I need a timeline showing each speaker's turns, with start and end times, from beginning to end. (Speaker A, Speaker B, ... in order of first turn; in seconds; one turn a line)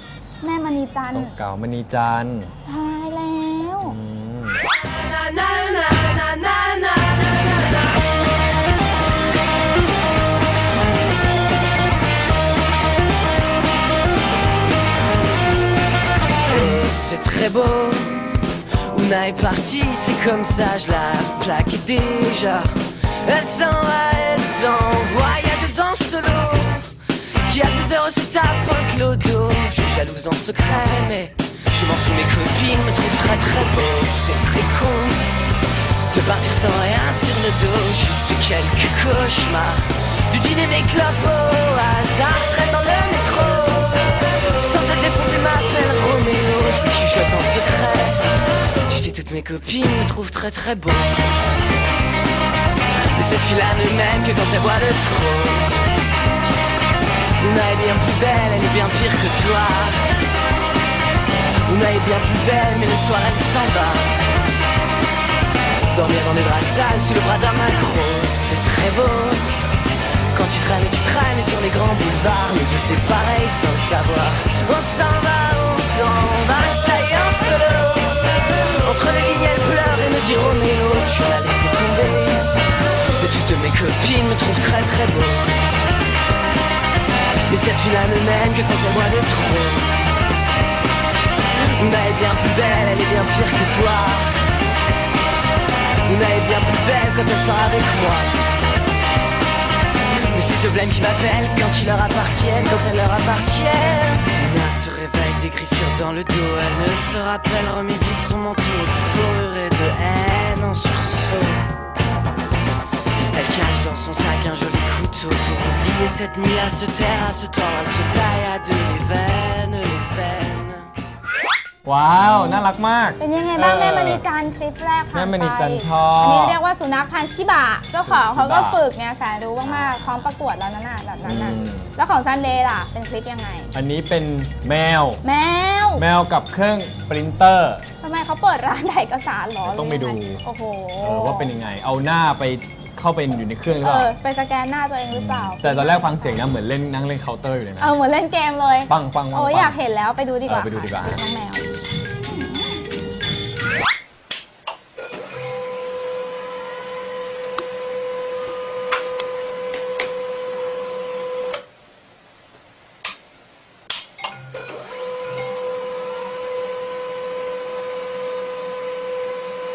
Speaker A: 0.4-1.4
Speaker B: 1.1-2.5
Speaker A: 2.6-4.0
Speaker B: 3.8-4.6
Speaker C: 4.8-8.1
Speaker C: 16.5-18.3
Speaker C: 18.8-35.3
Speaker C: 36.1-48.3
Speaker C: 48.8-51.2
Speaker C: 53.1-55.9
Speaker C: 57.4-60.2
Speaker C: 61.7-64.2
Speaker C: 65.9-69.6
Speaker C: 70.3-85.6
Speaker C: 87.5-89.9
Speaker C: 91.5-94.4
Speaker C: 96.0-98.3
Speaker C: 100.1-111.7
Speaker C: 113.3-120.9
Speaker B: 121.8-124.2
Speaker A: 122.2-122.7
Speaker A: 123.2-133.7
Speaker B: 125.1-126.6
Speaker B: 128.0-128.8
Speaker B: 129.6-130.2
Speaker B: 131.2-131.9
Speaker B: 133.7-135.2
Speaker A: 135.2-136.0
Speaker B: 136.0-137.8
Speaker A: 138.0-141.5
Speaker B: 139.6-140.4
Speaker B: 141.0-144.1
Speaker A: 143.8-146.4
Speaker B: 145.1-147.9
Speaker A: 147.8-151.7
Speaker B: 148.9-149.8
Speaker B: 150.5-151.2
Speaker A: 152.2-152.8